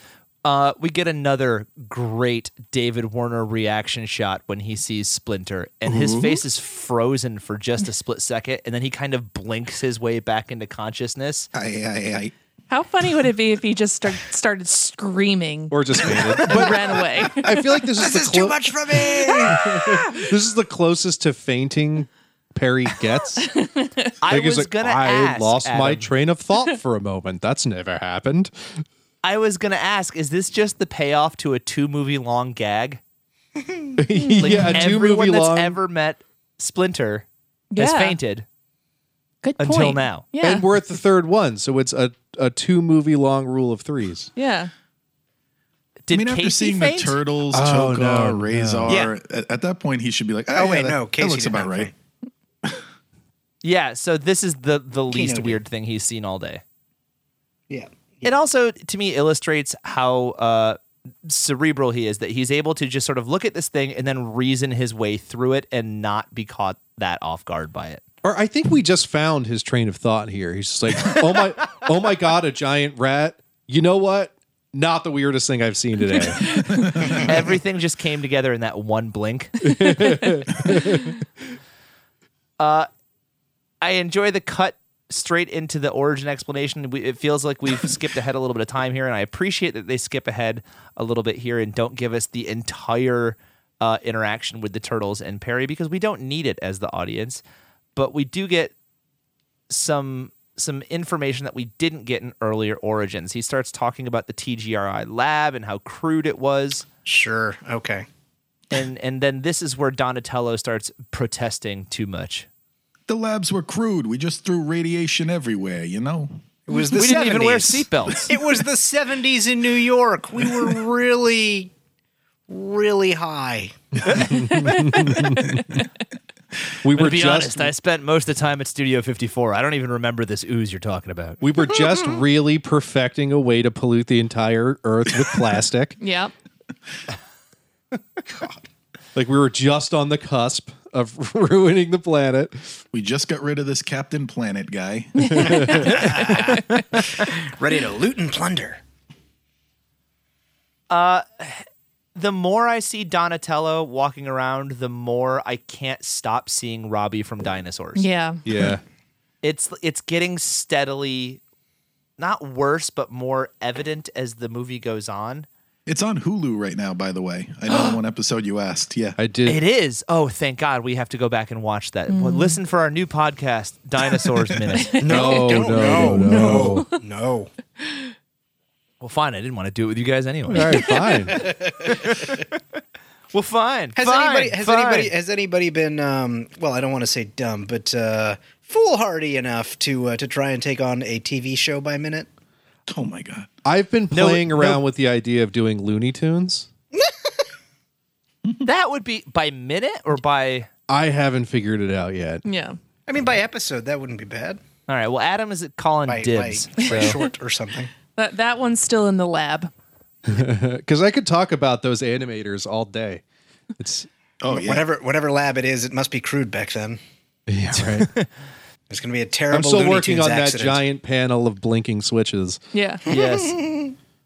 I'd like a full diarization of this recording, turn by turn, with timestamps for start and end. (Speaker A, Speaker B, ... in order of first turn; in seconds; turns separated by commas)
Speaker A: 0.5-11.5, Speaker B: 5.9-6.4, Speaker B: 11.5-12.3, Speaker C: 12.7-17.7, Speaker D: 15.7-23.4, Speaker B: 16.1-16.4, Speaker E: 17.9-19.8, Speaker C: 19.6-20.3, Speaker C: 23.4-24.1, Speaker A: 24.2-26.1, Speaker D: 24.3-28.8, Speaker A: 29.2-33.0, Speaker D: 34.0-35.8, Speaker C: 34.2-34.8, Speaker A: 34.4-38.5, Speaker C: 37.7-38.2, Speaker C: 39.4-40.7, Speaker A: 39.6-40.2, Speaker D: 40.4-44.3, Speaker C: 44.4-44.7, Speaker A: 46.1-47.2, Speaker B: 46.1-51.9, Speaker D: 47.5-49.0, Speaker E: 48.9-49.1, Speaker E: 50.5-51.9, Speaker A: 53.6-56.6, Speaker E: 55.1-55.6, Speaker E: 57.7-58.3, Speaker A: 58.2-68.0, Speaker D: 68.2-77.2, Speaker C: 76.5-77.1, Speaker A: 77.0-79.6, Speaker D: 79.6-81.1, Speaker C: 79.8-80.3, Speaker A: 82.6-82.9, Speaker A: 83.8-97.4, Speaker A: 98.0-98.7, Speaker A: 99.7-106.9, Speaker E: 107.0-108.1, Speaker A: 108.7-112.5, Speaker B: 113.1-116.4, Speaker E: 116.7-121.7, Speaker A: 116.9-118.4, Speaker E: 122.5-125.2, Speaker D: 124.0-125.8, Speaker D: 126.8-127.7, Speaker A: 126.9-131.4, Speaker D: 131.4-136.0, Speaker C: 136.0-136.3, Speaker E: 138.3-138.6, Speaker D: 139.2-142.8, Speaker B: 142.9-145.7, Speaker D: 145.3-146.0, Speaker C: 145.3-145.9, Speaker E: 145.7-148.8, Speaker A: 150.9-158.1, Speaker C: 158.0-158.4, Speaker D: 158.4-158.8, Speaker A: 159.4-161.4, Speaker A: 162.2-165.5, Speaker B: 165.9-169.2, Speaker D: 169.2-169.6, Speaker A: 169.4-175.0, Speaker C: 172.1-172.6, Speaker C: 174.8-176.8, Speaker E: 175.0-177.5, Speaker D: 175.1-176.9, Speaker A: 179.0-181.0, Speaker D: 180.5-181.5, Speaker E: 181.4-182.4, Speaker A: 181.8-182.6, Speaker A: 183.3-185.1, Speaker E: 184.0-192.3, Speaker B: 192.9-193.5, Speaker D: 193.7-196.7, Speaker A: 194.1-194.8, Speaker E: 196.9-197.4, Speaker A: 198.6-200.7, Speaker D: 200.9-202.4, Speaker C: 202.4-202.8, Speaker E: 203.1-204.6, Speaker A: 204.9-207.2, Speaker E: 206.1-207.9, Speaker C: 206.9-207.3, Speaker C: 208.2-209.7, Speaker D: 210.2-213.2, Speaker D: 213.8-214.1, Speaker B: 214.4-214.9, Speaker E: 214.5-217.0, Speaker D: 217.5-218.1, Speaker A: 217.7-218.3, Speaker E: 218.9-220.8, Speaker D: 219.5-222.6, Speaker C: 222.7-223.0, Speaker A: 223.1-223.7, Speaker E: 223.1-223.9